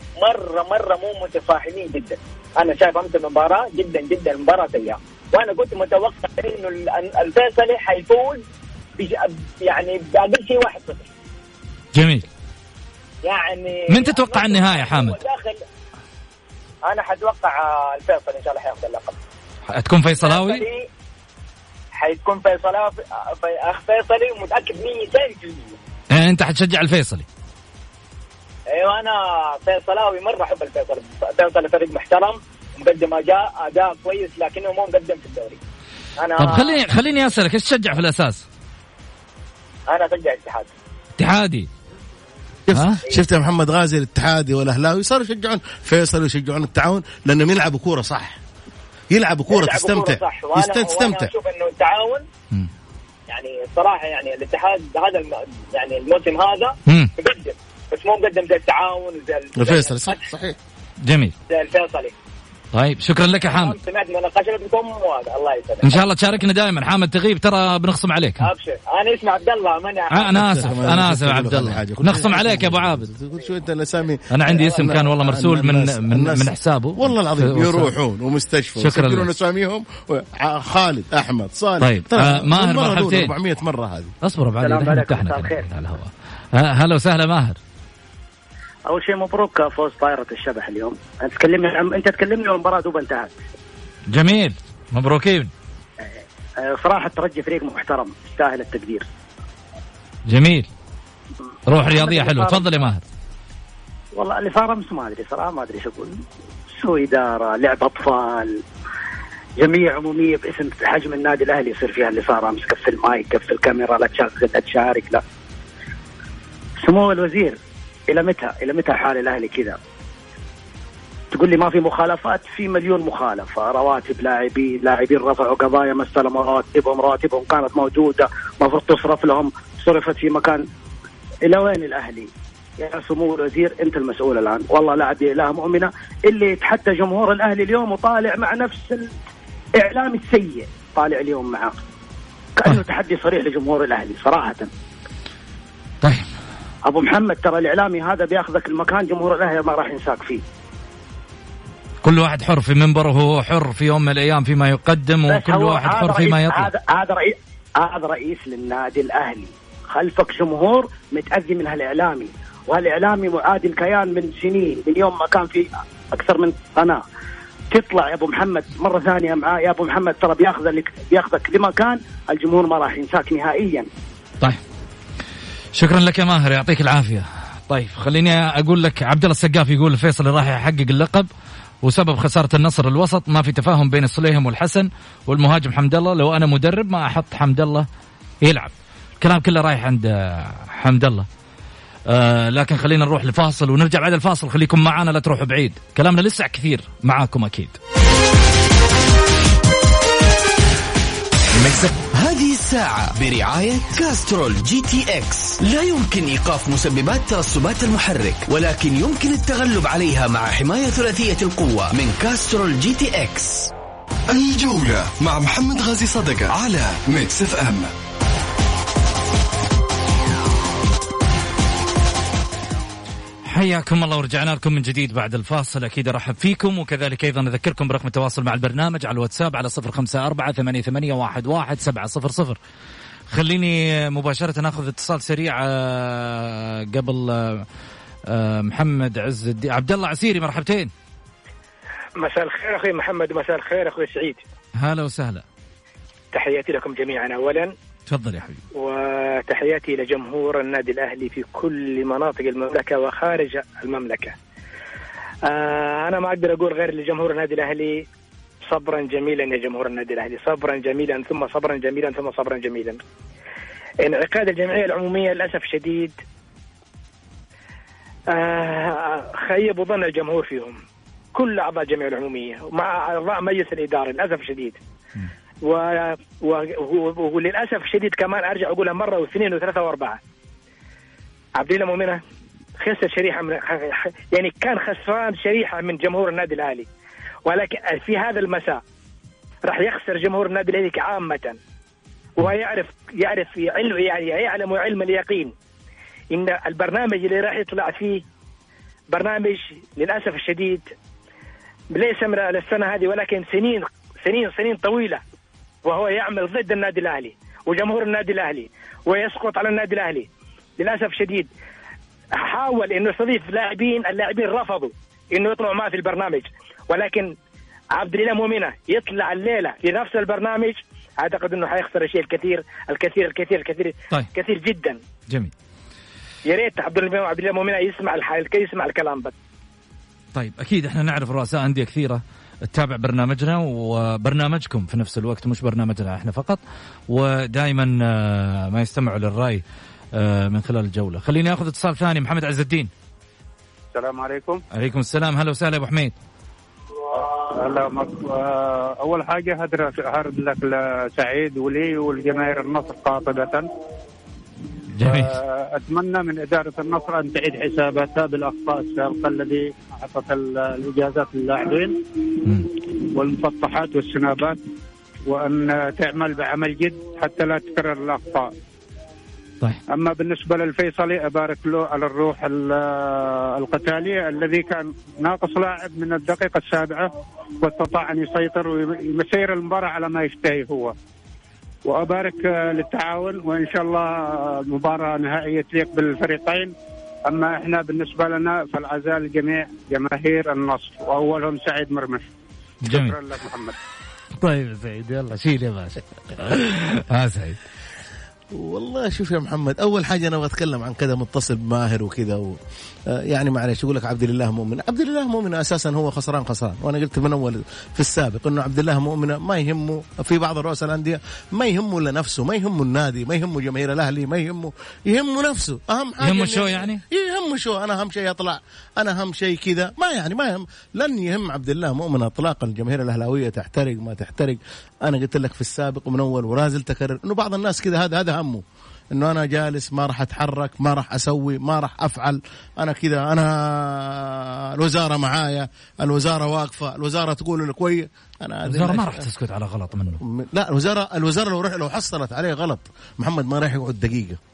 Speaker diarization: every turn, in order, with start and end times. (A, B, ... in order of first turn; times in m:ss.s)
0:00.2-0:08.4 A
0:09.0-0:11.1 A
0:11.9-0:12.3 B
0:13.2-0:15.6 A
0:13.9-0:15.2 B
0:16.8-0:19.2 A
0:19.7-0:20.6 B
0:20.2-0:20.9 A
0:21.9-0:25.8 A
0:26.1-0:27.3 B
0:28.7-0:35.6 A
0:36.2-0:36.8 A
0:36.4-0:38.4 B
0:39.9-0:40.7 A
0:41.2-0:41.7 B
0:42.7-0:48.4 C
0:42.7-0:43.0 B
0:49.1-0:51.3 C
0:49.5-0:52.2 A
0:53.3-1:00.2 A
0:59.6-1:00.6 C
1:01.0-1:01.4 B
1:01.5-1:02.2 A
1:02.7-1:03.8 B
1:03.4-1:06.0 A
1:05.8-1:08.4 B
1:08.4-1:10.7 A
1:10.1-1:13.0 B
1:10.4-1:24.1 C
1:14.3-1:17.9 B
1:18.8-1:19.3 B
1:21.8-1:23.3 B
1:24.2-1:27.6 B
1:24.6-1:25.7 D
1:28.9-1:33.3 D
1:34.1-1:35.5 B
1:36.6-1:39.1 D
1:40.3-1:40.7 B
1:41.7-1:43.0 B
1:41.7-1:42.6 D
1:44.2-1:46.1 D
1:46.8-1:48.6 D
1:49.6-1:55.2 D
1:56.8-1:57.6 D
1:58.1-1:59.8 D
2:01.3-2:10.6 D
2:11.5-2:19.1 D
2:19.8-2:21.8 D
2:22.6-2:24.7 D
2:26.0-2:26.3 B
2:26.9-2:30.4 D
2:32.0-2:36.7 B
2:35.3-2:47.0 D
2:47.7-2:53.9 D
2:55.8-3:01.3 B
3:01.8-3:07.9 B
3:08.4-3:11.3 B
3:12.1-3:17.8 B
3:21.6-3:33.7 E
3:34.3-3:37.9 F
3:43.5-3:52.6 B
3:53.3-3:57.7 B
3:58.3-4:00.9 B
4:02.2-4:04.4 G
4:04.8-4:05.4 B
4:06.3-4:07.7 G
4:08.1-4:08.6 B
4:08.8-4:14.4 G
4:15.5-4:18.0 G
4:18.7-4:23.0 G
4:24.0-4:26.2 G
4:28.3-4:30.8 G
4:31.3-4:34.8 G
4:35.6-4:40.2 G
4:41.6-4:42.2 G
4:42.8-4:46.9 G
4:47.5-4:48.8 G
4:49.7-4:51.6 G
4:52.4-4:55.5 G
4:56.3-4:58.2 G
4:59.1-5:00.9 G
5:01.9-5:05.2 G
5:05.9-5:10.3 G
5:10.8-5:11.5 G
5:12.4-5:17.3 G
5:17.9-5:25.0 G
5:26.5-5:29.3 G
5:30.3-5:39.6 B
5:40.1-5:42.9 B
5:43.9-5:44.6 H
5:44.7-5:46.2 B
5:47.1-5:53.7 H
5:55.0-5:55.4 B
5:55.0-6:02.0 H
6:03.2-6:04.6 H
6:05.3-6:08.5 H
6:09.9-6:21.0 H
6:21.9-6:26.7 H
6:27.3-6:32.3 H
6:32.8-6:33.2 B
6:32.9-6:33.8 H
6:34.4-6:37.6 B
6:38.5-6:42.6 C
6:43.1-7:19.3 C
6:56.2-6:57.0 B
7:18.7-7:20.2 B
7:20.2-7:24.4 C